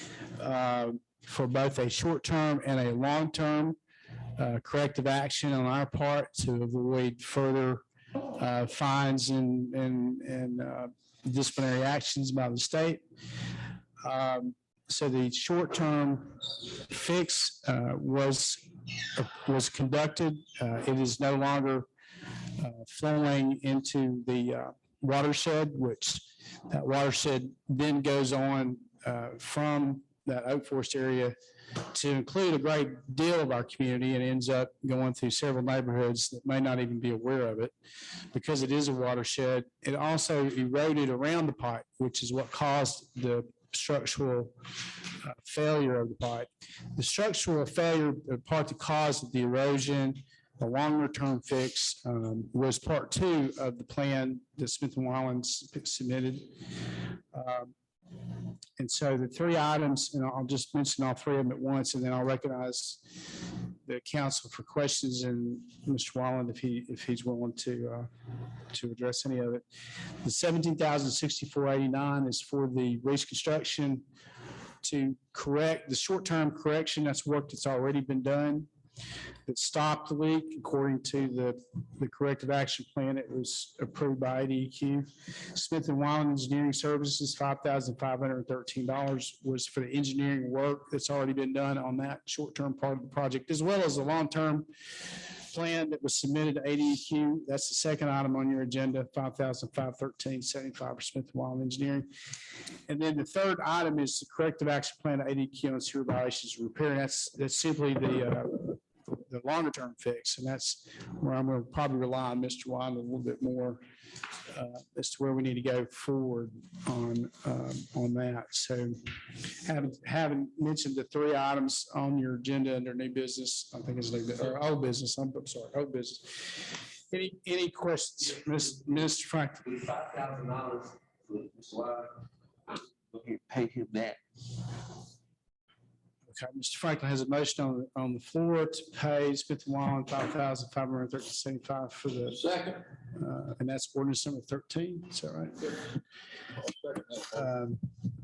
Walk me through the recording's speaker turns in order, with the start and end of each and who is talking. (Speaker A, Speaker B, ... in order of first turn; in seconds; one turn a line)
Speaker A: 0.3-3.8
Speaker A: 4.3-13.0
Speaker A: 14.0-21.9
Speaker A: 22.4-37.7
Speaker A: 38.3-57.7
Speaker A: 58.8-68.1
Speaker A: 68.7-69.6
Speaker A: 70.2-74.0
Speaker A: 74.8-78.7
Speaker A: 79.5-102.1
Speaker A: 102.9-113.8
Speaker A: 114.4-129.7
Speaker B: 129.6-134.2
Speaker A: 136.3-142.4
Speaker B: 142.4-142.8
Speaker A: 143.0-145.9
Speaker B: 146.7-147.2
Speaker A: 147.2-147.9